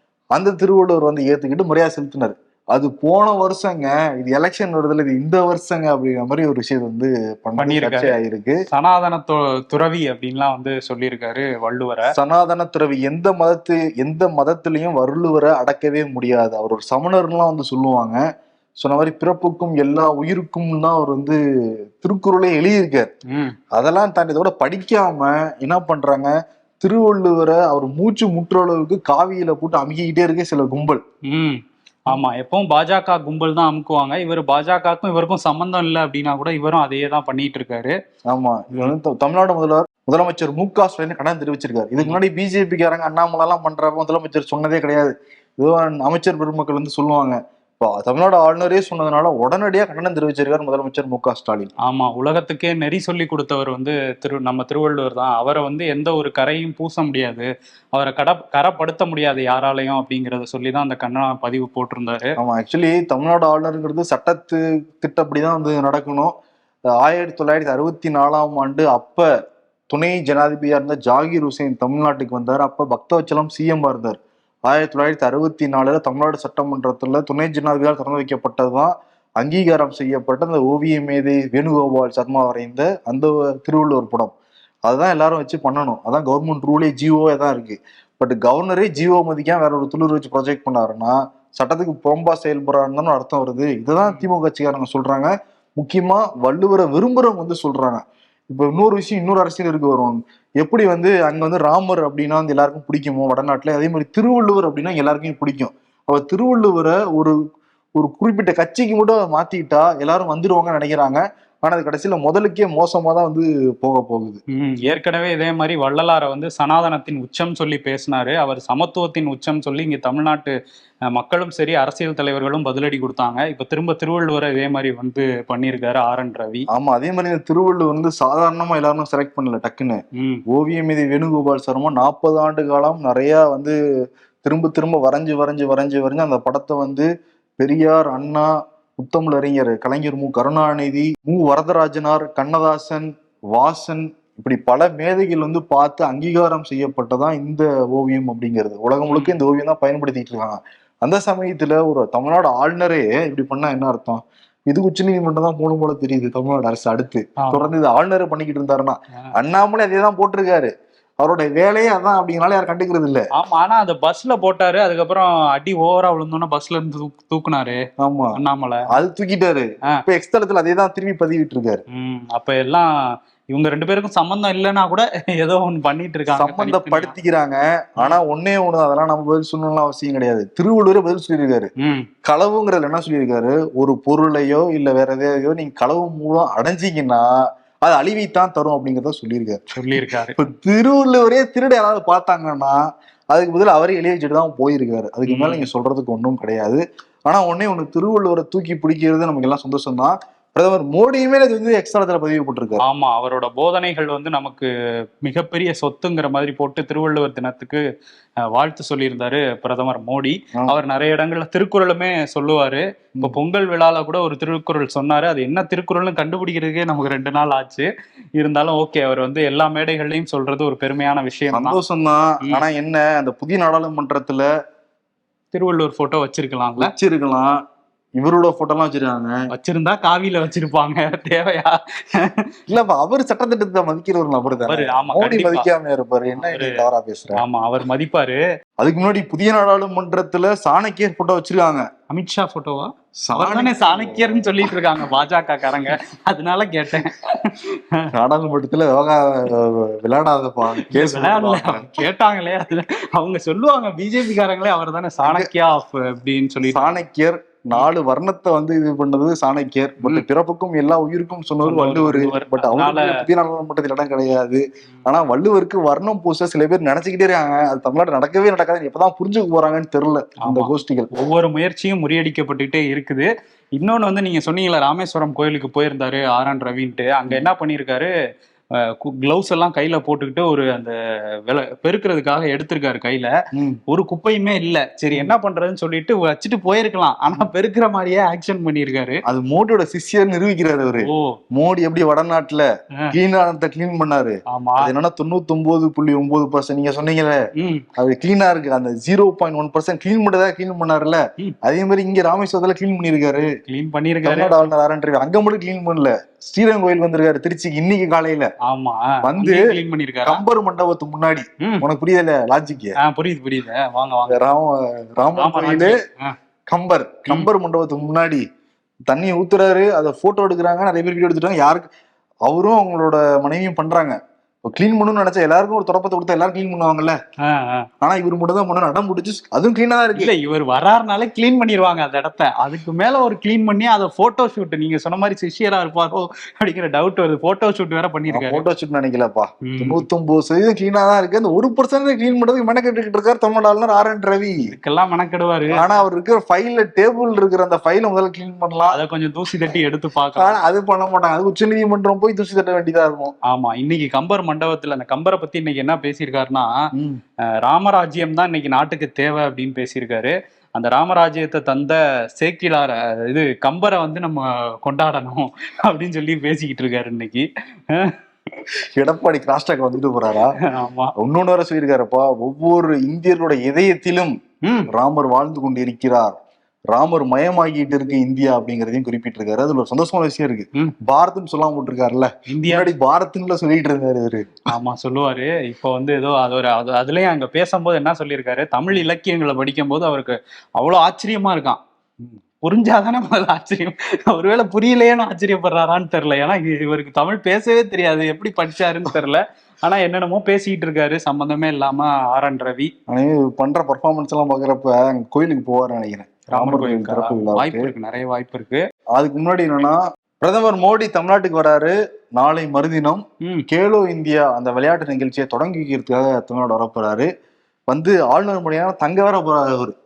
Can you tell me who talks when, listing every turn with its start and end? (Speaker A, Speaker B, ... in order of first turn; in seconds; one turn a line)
Speaker A: 0.3-8.6
Speaker B: 7.6-8.2
Speaker B: 8.7-12.1
Speaker A: 12.1-18.2
Speaker A: 18.8-21.4
Speaker A: 22.0-23.1
Speaker B: 23.3-23.6
Speaker A: 23.7-31.0
Speaker B: 31.3-37.9
Speaker A: 38.3-51.7
Speaker B: 51.8-62.3
Speaker A: 62.4-66.3
Speaker A: 67.0-69.3
Speaker A: 69.9-84.3
Speaker A: 84.9-107.4
Speaker A: 108.0-114.4
Speaker B: 114.5-120.5
Speaker B: 121.1-126.7
Speaker A: 126.7-133.8
Speaker B: 130.2-130.4
Speaker A: 134.4-163.2
Speaker B: 149.1-149.4
Speaker B: 157.4-157.7
Speaker B: 163.3-167.8
Speaker A: 168.0-168.4
Speaker B: 168.4-168.8
Speaker A: 168.9-171.8
Speaker B: 171.9-172.9
Speaker B: 173.5-177.2
Speaker A: 176.3-181.7
Speaker B: 181.8-182.1
Speaker A: 182.2-187.3
Speaker A: 187.8-189.6
Speaker B: 189.8-190.4
Speaker A: 190.3-192.8
Speaker A: 193.3-202.8
Speaker B: 195.3-195.7
Speaker B: 202.8-204.7
Speaker B: 205.2-207.8
Speaker B: 208.5-221.8
Speaker A: 221.5-224.5
Speaker B: 225.5-226.9
Speaker A: 226.8-227.6
Speaker A: 228.2-229.4
Speaker B: 229.5-232.5
Speaker A: 232.7-237.4
Speaker B: 234.5-235.7
Speaker B: 236.3-236.8
Speaker B: 237.4-238.4
Speaker A: 238.8-241.9
Speaker B: 242.1-248.1
Speaker A: 243.2-244.7
Speaker A: 248.2-252.1
Speaker B: 250.8-256.9
Speaker A: 255.2-255.5
Speaker A: 256.7-271.1
Speaker B: 261.6-263.2
Speaker B: 270.4-278.1
Speaker B: 278.8-280.9
Speaker B: 281.5-283.3
Speaker A: 283.5-283.8
Speaker B: 283.9-289.2
Speaker A: 289.3-297.4
Speaker B: 291.0-291.4
Speaker B: 294.5-294.9
Speaker B: 297.6-297.9
Speaker A: 298.0-303.5
Speaker B: 303.7-304.7
Speaker A: 304.2-308.5
Speaker B: 308.6-310.4
Speaker A: 309.2-312.9
Speaker B: 311.6-311.9
Speaker B: 313.0-314.4
Speaker A: 314.3-316.0
Speaker B: 315.4-316.4
Speaker A: 316.7-318.4
Speaker A: 319.1-321.9
Speaker A: 322.5-327.2
Speaker B: 327.4-327.9
Speaker A: 328.0-330.3
Speaker B: 330.2-338.6
Speaker A: 338.3-344.7
Speaker B: 339.6-340.1
Speaker B: 344.7-345.9
Speaker A: 345.7-349.0
Speaker B: 348.9-350.6
Speaker A: 350.4-353.3
Speaker B: 353.5-356.7
Speaker B: 357.6-368.1
Speaker A: 369.0-370.5
Speaker B: 370.6-371.1
Speaker A: 371.2-374.4
Speaker B: 374.6-374.9
Speaker A: 374.9-376.4
Speaker A: 376.9-384.6
Speaker B: 382.5-382.9
Speaker B: 384.7-402.9
Speaker A: 403.1-407.9
Speaker B: 406.5-408.8
Speaker A: 409.2-417.3
Speaker A: 417.9-419.9